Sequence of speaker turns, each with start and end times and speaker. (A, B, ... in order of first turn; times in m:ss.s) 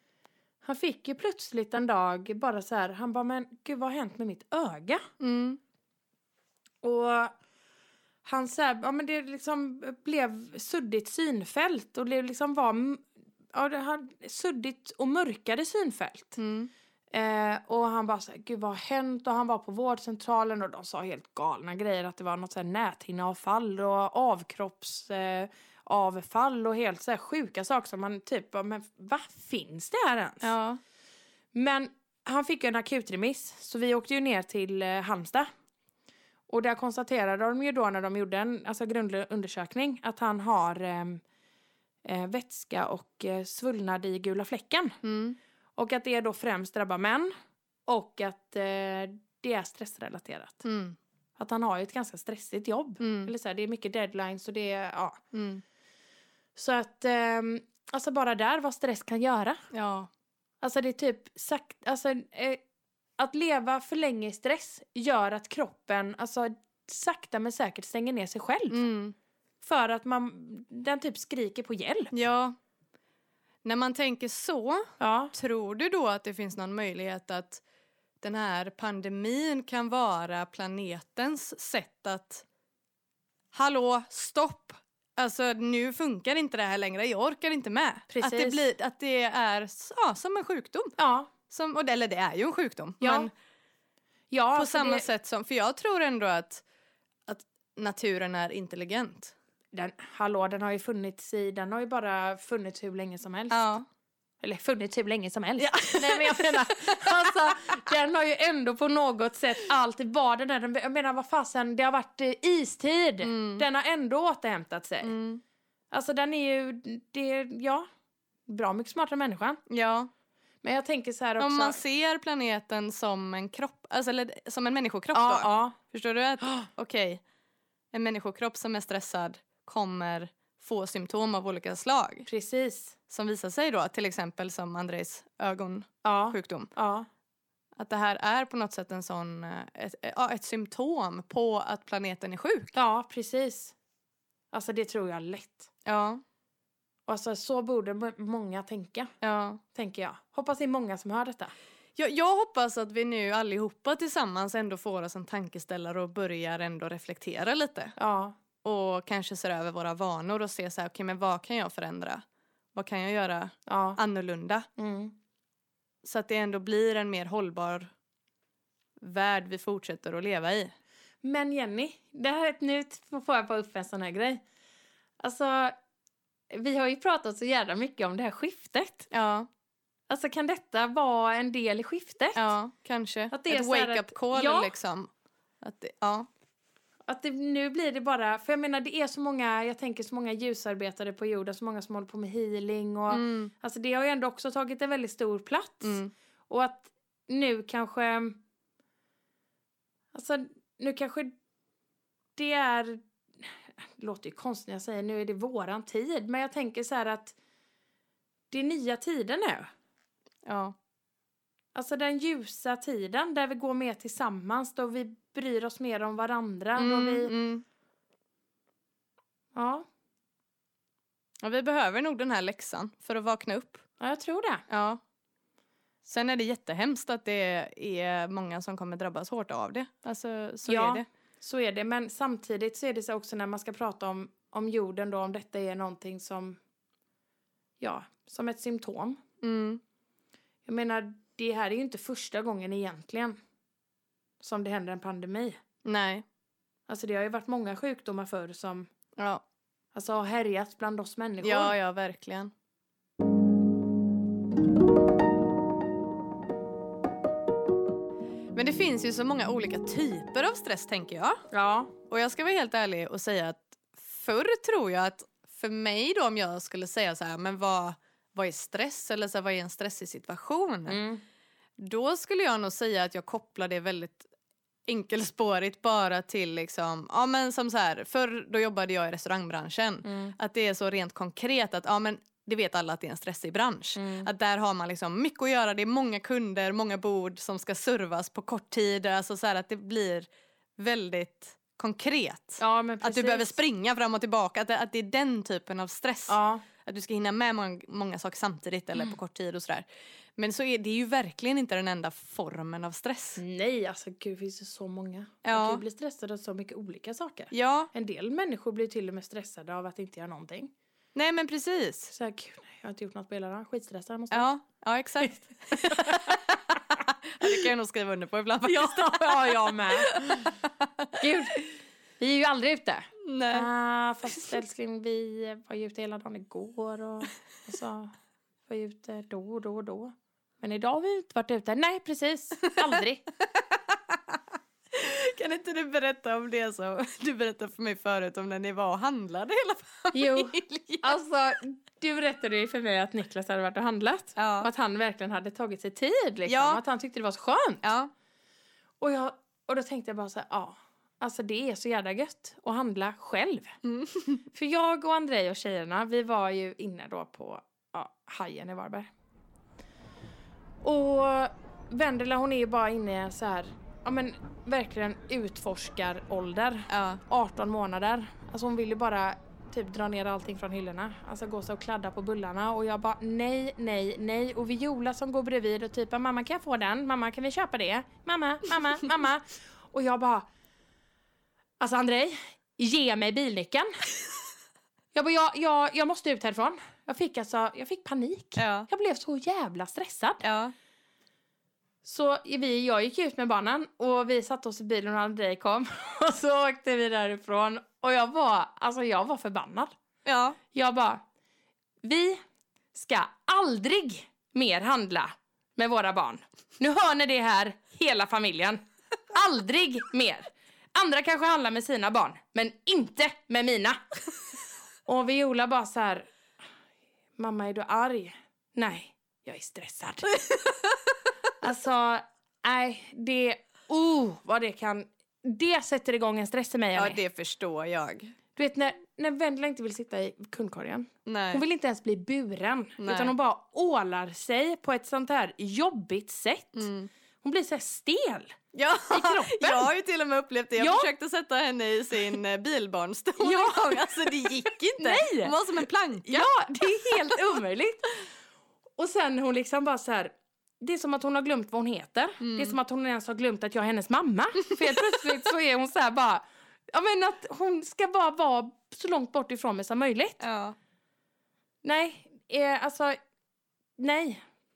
0:00.6-0:05.1 A
0:05.2-0:05.6 B
0:06.8-0:07.3 A
0:08.2-0:16.4 A
0:16.4-0:16.7 B
0:17.1-0:30.5 A
0:30.4-0:30.8 B
0:31.5-0:35.5 A
0:36.5-0:41.2 A
0:42.0-0:45.0 A
0:45.0-0:45.4 B
0:45.8-0:47.3 A
0:47.9-0:50.6 A
0:50.6-0:51.0 B
0:51.4-0:55.2 A
0:53.0-0:53.3 B
0:55.3-0:55.6 B
0:56.6-0:59.6 A
0:59.7-1:00.1 B
1:00.6-1:02.6 A
1:03.2-1:08.8 A
1:08.7-1:09.2 B
1:09.6-1:12.1 A
1:12.1-1:12.6 B
1:13.6-1:17.6 B
1:15.0-1:15.3 A
1:18.2-1:22.4 B
1:23.5-1:30.9 B
1:28.1-1:28.6 A
1:31.0-1:31.3 A
1:31.5-1:33.3 B
1:33.0-1:33.3 A
1:34.3-1:35.1 A
1:34.6-1:36.6 B
1:37.3-1:39.3 B
1:39.7-1:43.7 A
1:43.5-1:43.8 B
1:44.4-1:55.1 A
1:45.6-1:47.6 B
1:53.2-1:53.6 B
1:55.0-1:55.4 B
1:55.9-1:57.9 A
1:58.5-1:59.6 A
1:59.7-2:00.1 B
2:00.6-2:01.8 A
2:01.4-2:07.2 B
2:05.1-2:05.8 A
2:06.4-2:06.7 A
2:07.9-2:12.2 B
2:12.2-2:12.9 A
2:13.1-2:16.7 B
2:16.0-2:17.1 A
2:17.8-2:22.7 B
2:22.7-2:23.7 A
2:24.5-2:25.7 A
2:25.8-2:26.2 B
2:27.1-2:29.1 A
2:29.2-2:29.6 B
2:29.7-2:31.5 A
2:32.0-2:37.9 B
2:38.0-2:38.4 A
2:38.6-2:42.2 B
2:42.7-2:44.7 B
2:43.7-2:44.0 A
2:44.8-2:45.1 A
2:46.0-2:47.9 B
2:49.0-2:50.7 B
2:51.2-2:54.4 A
2:55.2-2:55.7 A
2:56.5-2:59.1 A
2:59.1-2:59.5 B
3:00.1-3:02.5 A
3:02.3-3:05.1 B
3:03.3-3:04.7 A
3:05.6-3:06.3 B
3:07.1-3:18.4 A
3:13.1-3:13.5 B
3:15.8-3:16.1 B
3:20.1-3:21.3 A
3:22.4-3:27.3 A
3:28.5-3:29.7 A
3:30.4-3:30.7 B
3:31.7-3:37.3 A
3:36.8-3:37.6 B
3:39.5-3:39.8 A
3:41.4-3:43.8 B
3:44.0-3:44.6 A
3:44.7-3:45.0 B
3:46.0-3:51.0 B
3:50.6-3:56.6 A
3:57.8-3:59.2 A
3:59.4-3:59.8 B
4:00.6-4:03.4 A
4:04.4-4:05.6 A
4:05.8-4:06.2 B
4:06.9-4:08.9 A
4:09.2-4:09.4 B
4:09.9-4:11.8 A
4:11.4-4:12.5 B
4:18.5-4:21.4 B
4:21.5-4:21.9 A
4:22.1-4:31.0 B
4:30.9-4:31.2 A
4:31.8-4:34.3 B
4:34.9-4:50.3 B
4:40.0-4:40.3 A
4:43.9-4:44.3 A
4:50.8-4:59.8 B
4:52.6-4:53.6 A
4:56.3-4:56.6 A
5:00.4-5:03.4 B
5:03.4-5:10.7 A
5:05.4-5:05.8 B
5:07.5-5:07.9 B
5:11.1-5:12.1 B
5:12.1-5:14.5 A
5:14.3-5:21.1 B
5:15.2-5:16.6 A
5:18.6-5:20.5 A
5:21.2-5:28.1 A
5:23.2-5:23.7 B
5:28.7-5:33.2 A
5:33.5-5:34.4 B
5:34.9-5:41.1 B
5:40.1-5:47.8 A
5:44.4-5:44.7 B
5:46.5-5:46.8 B
5:47.8-5:48.1 B
5:49.0-5:53.8 A
5:53.8-5:54.4 B
5:54.5-5:59.1 A
6:00.8-6:20.5 A
6:06.9-6:07.2 B
6:21.8-6:23.9 A
6:25.1-6:30.4 A
6:28.6-6:28.9 B
6:30.4-6:30.7 B
6:32.0-6:39.9 A
6:40.2-6:40.6 B
6:40.7-6:41.2 A
6:42.0-6:42.4 A
6:42.9-6:54.1 A
6:55.0-6:56.3 A
6:57.4-7:00.4 A
7:00.5-7:00.9 B
7:01.6-7:07.2 A
7:06.9-7:08.3 B
7:08.6-7:16.9 A
7:11.2-7:11.6 B
7:13.0-7:13.3 B
7:16.7-7:17.1 B
7:17.4-7:18.6 A
7:18.7-7:27.2 B
7:19.1-7:19.9 A
7:20.8-7:21.1 A
7:23.4-7:25.6 A
7:26.2-7:28.3 A
7:29.0-7:40.4 A
7:32.4-7:32.8 B
7:34.7-7:35.1 B
7:40.4-7:40.8 B
7:41.8-7:43.2 A
7:44.0-7:44.4 A